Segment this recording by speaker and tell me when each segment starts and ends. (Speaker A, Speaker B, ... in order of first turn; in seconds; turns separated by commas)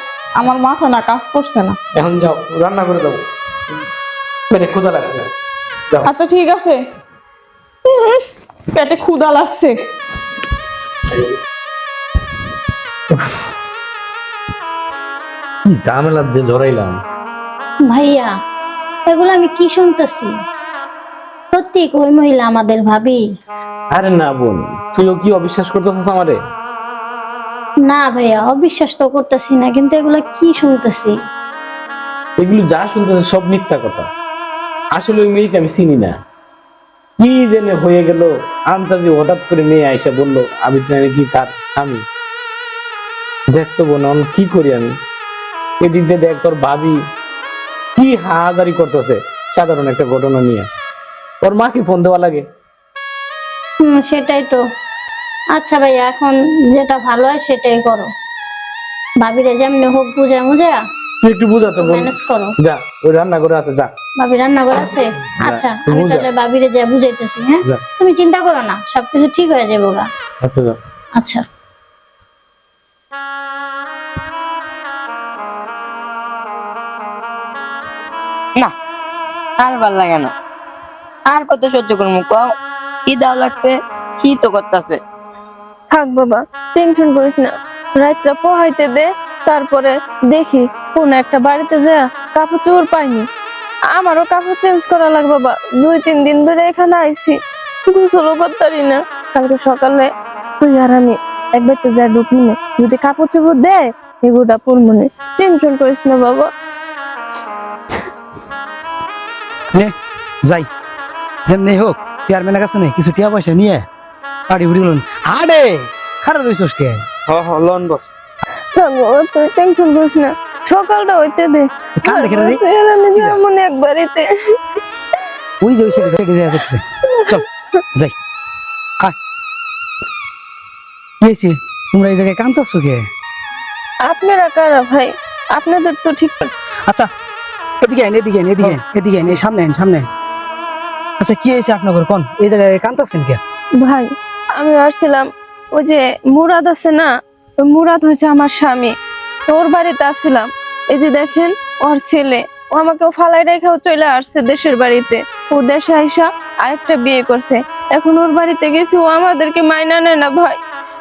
Speaker A: 0.4-1.8, Speaker B: 1.9-3.2, Speaker B: 4.5-5.3, Speaker A: 6.0-6.8, Speaker A: 7.8-8.2, Speaker A: 8.7-9.7, Speaker B: 15.6-17.0, Speaker C: 17.9-18.3, Speaker C: 19.1-20.3, Speaker C: 21.5-23.2, Speaker B: 23.9-26.4, Speaker C: 27.8-31.1, Speaker B: 32.4-34.1, Speaker B: 34.9-36.2, Speaker B: 37.2-42.0, Speaker B: 43.5-45.0, Speaker B: 45.8-47.0, Speaker B: 48.0-50.7, Speaker B: 51.4-52.5, Speaker C: 53.8-54.6, Speaker C: 55.5-58.1, Speaker C: 59.2-60.8, Speaker B: 61.2-63.9, Speaker C: 61.6-62.5, Speaker C: 64.2-70.1, Speaker B: 65.4-66.3, Speaker B: 70.4-70.8, Speaker C: 71.2-71.4, Speaker D: 79.6-80.3, Speaker D: 81.3-82.5, Speaker D: 83.1-85.0, Speaker E: 85.9-93.2, Speaker E: 93.9-97.4, Speaker E: 97.9-106.5, Speaker F: 111.5-113.8, Speaker F: 114.5-117.0, Speaker E: 118.7-124.3, Speaker F: 122.0-122.6, Speaker F: 125.6-127.4, Speaker F: 131.2-133.0, Speaker E: 134.1-136.5, Speaker F: 137.8-140.1, Speaker F: 141.2-143.4, Speaker E: 143.8-148.9, Speaker E: 149.5-160.6